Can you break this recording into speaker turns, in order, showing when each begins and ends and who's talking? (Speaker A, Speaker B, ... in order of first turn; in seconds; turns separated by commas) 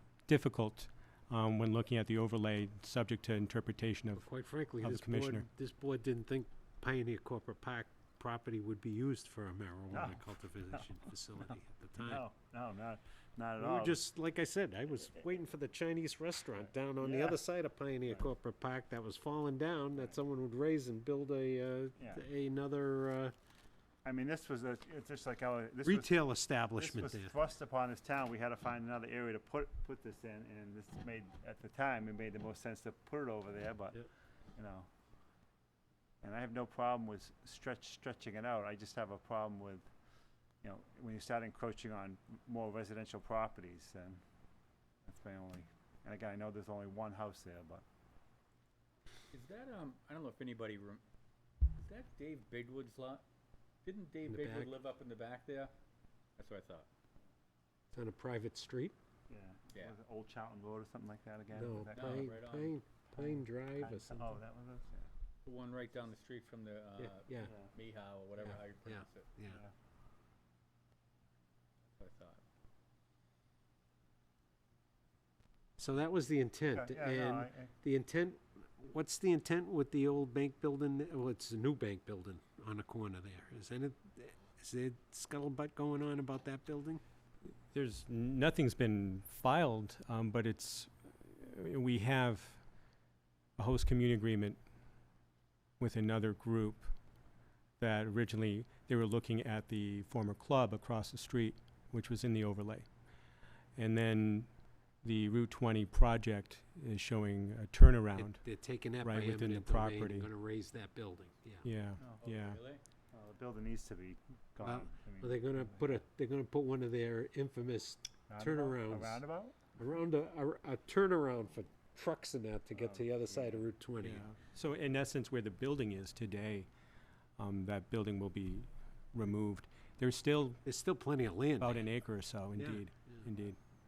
Speaker A: 0.3-4.3, Speaker B: 4.2-12.2, Speaker A: 4.8-5.5, Speaker C: 9.9-10.2, Speaker C: 12.0-14.0, Speaker B: 13.6-23.3, Speaker C: 17.0-17.4, Speaker C: 24.0-26.2, Speaker B: 25.8-27.3, Speaker C: 26.8-34.0, Speaker C: 34.6-34.9, Speaker C: 36.2-39.9, Speaker C: 40.6-44.2, Speaker C: 45.1-47.8, Speaker D: 49.3-51.0, Speaker D: 51.8-53.2, Speaker D: 53.8-55.7, Speaker B: 54.2-54.8, Speaker D: 56.4-56.9, Speaker B: 57.9-59.0, Speaker C: 59.3-62.4, Speaker B: 61.5-64.4, Speaker D: 62.0-62.8, Speaker C: 63.2-65.1, Speaker D: 65.5-69.3, Speaker B: 67.0-67.5, Speaker B: 68.4-69.6, Speaker D: 72.0-72.4, Speaker B: 75.8-87.0, Speaker C: 76.7-77.7, Speaker A: 87.7-92.6, Speaker A: 93.6-94.6, Speaker A: 95.8-96.9, Speaker A: 97.8-102.9, Speaker A: 103.8-104.5, Speaker A: 105.0-108.4, Speaker B: 108.2-111.7, Speaker A: 109.0-110.3, Speaker A: 111.6-112.6, Speaker D: 112.2-112.8, Speaker C: 113.1-116.0, Speaker B: 114.6-124.3, Speaker C: 118.3-119.7, Speaker C: 122.8-123.7, Speaker A: 124.0-126.7, Speaker A: 127.4-130.6, Speaker B: 130.7-131.9, Speaker A: 131.6-133.6, Speaker B: 132.6-133.3